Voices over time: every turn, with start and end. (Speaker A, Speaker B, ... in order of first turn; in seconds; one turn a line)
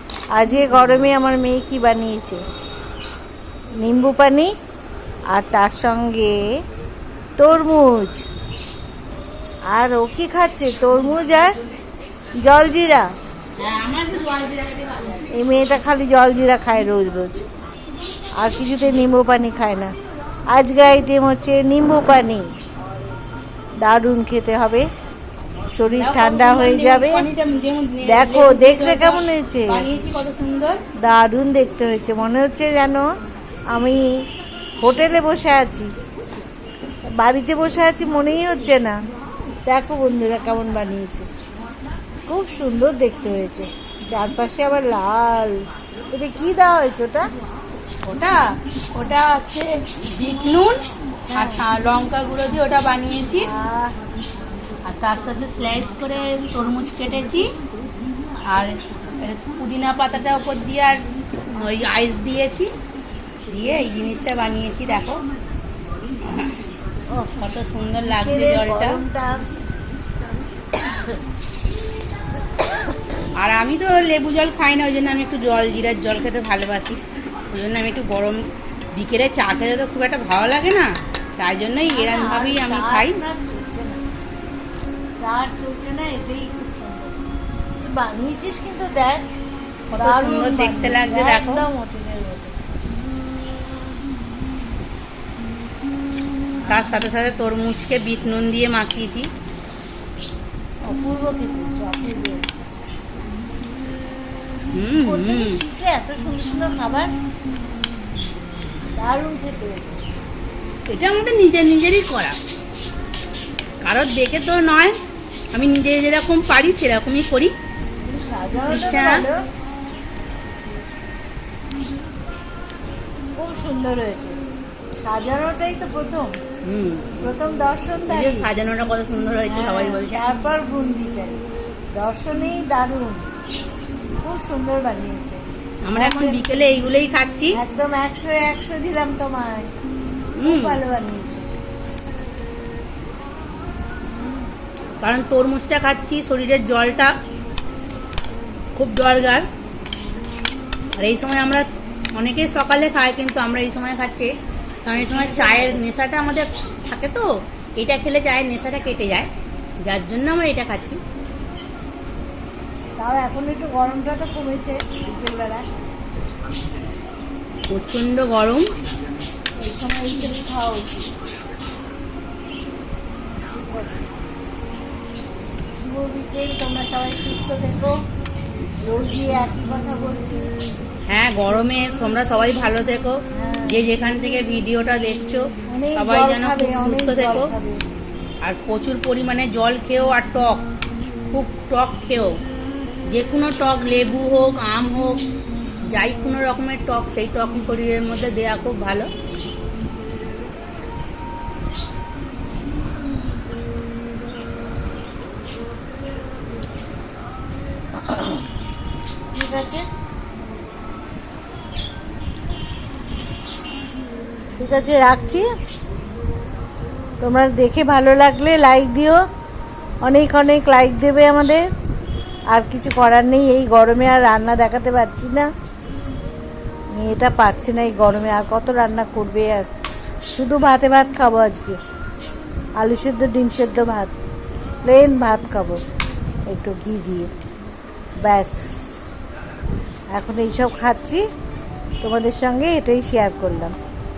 Speaker A: 0.4-2.4
Speaker A: 3.8-4.5
Speaker A: 5.3-6.4
Speaker A: 7.4-8.2
Speaker A: 9.7-11.5
Speaker A: 12.4-13.1
Speaker B: 13.6-15.3
Speaker A: 15.3-17.4
Speaker A: 18.4-19.9
Speaker A: 20.5-22.5
Speaker A: 23.8-24.9
Speaker A: 25.7-27.3
Speaker B: 26.0-30.8
Speaker A: 28.0-29.9
Speaker A: 31.0-33.1
Speaker A: 33.7-34.1
Speaker A: 34.8-35.9
Speaker A: 37.1-39.0
Speaker A: 39.7-41.3
Speaker A: 42.3-47.3
Speaker B: 48.0-53.5
Speaker A: 51.3-51.6
Speaker A: 53.4-54.0
Speaker B: 54.9-57.5
Speaker B: 58.5-61.0
Speaker B: 61.5-62.7
Speaker B: 63.5-65.2
Speaker A: 67.1-67.4
Speaker B: 67.4-69.0
Speaker A: 68.2-69.5
Speaker B: 73.4-83.2
Speaker A: 81.8-84.0
Speaker A: 85.2-87.2
Speaker A: 87.8-89.2
Speaker B: 89.9-91.7
Speaker A: 90.0-92.6
Speaker B: 96.7-99.3
Speaker A: 100.9-102.6
Speaker B: 104.7-105.6
Speaker A: 105.0-107.1
Speaker A: 109.0-110.0
Speaker B: 110.9-112.4
Speaker B: 113.8-115.0
Speaker B: 115.5-117.5
Speaker A: 118.0-119.4
Speaker B: 118.7-119.2
Speaker A: 123.4-124.4
Speaker A: 125.0-126.3
Speaker B: 126.7-127.1
Speaker A: 127.2-128.5
Speaker B: 128.1-130.2
Speaker A: 129.5-131.4
Speaker A: 132.0-133.2
Speaker A: 134.2-136.7
Speaker B: 135.8-137.6
Speaker A: 137.5-139.7
Speaker B: 140.4-140.8
Speaker A: 140.4-141.5
Speaker B: 145.0-147.1
Speaker B: 148.8-149.5
Speaker B: 151.0-154.3
Speaker B: 154.9-159.3
Speaker A: 155.0-155.8
Speaker B: 159.9-161.0
Speaker A: 163.0-165.7
Speaker B: 167.7-168.7
Speaker A: 169.6-171.1
Speaker A: 173.5-174.1
Speaker A: 175.8-177.9
Speaker A: 178.8-180.5
Speaker B: 181.1-187.5
Speaker A: 183.3-183.8
Speaker A: 185.7-187.8
Speaker B: 188.4-190.6
Speaker B: 191.3-192.4
Speaker B: 193.1-195.2
Speaker B: 195.9-199.1
Speaker A: 209.3-209.8
Speaker A: 214.6-215.4
Speaker A: 217.2-219.2
Speaker A: 220.1-221.7
Speaker A: 222.5-225.5
Speaker A: 226.9-229.8
Speaker A: 230.3-231.8
Speaker A: 232.8-234.1
Speaker A: 234.8-235.8
Speaker A: 236.5-237.3
Speaker A: 238.2-239.1
Speaker A: 240.1-241.2
Speaker A: 242.0-243.7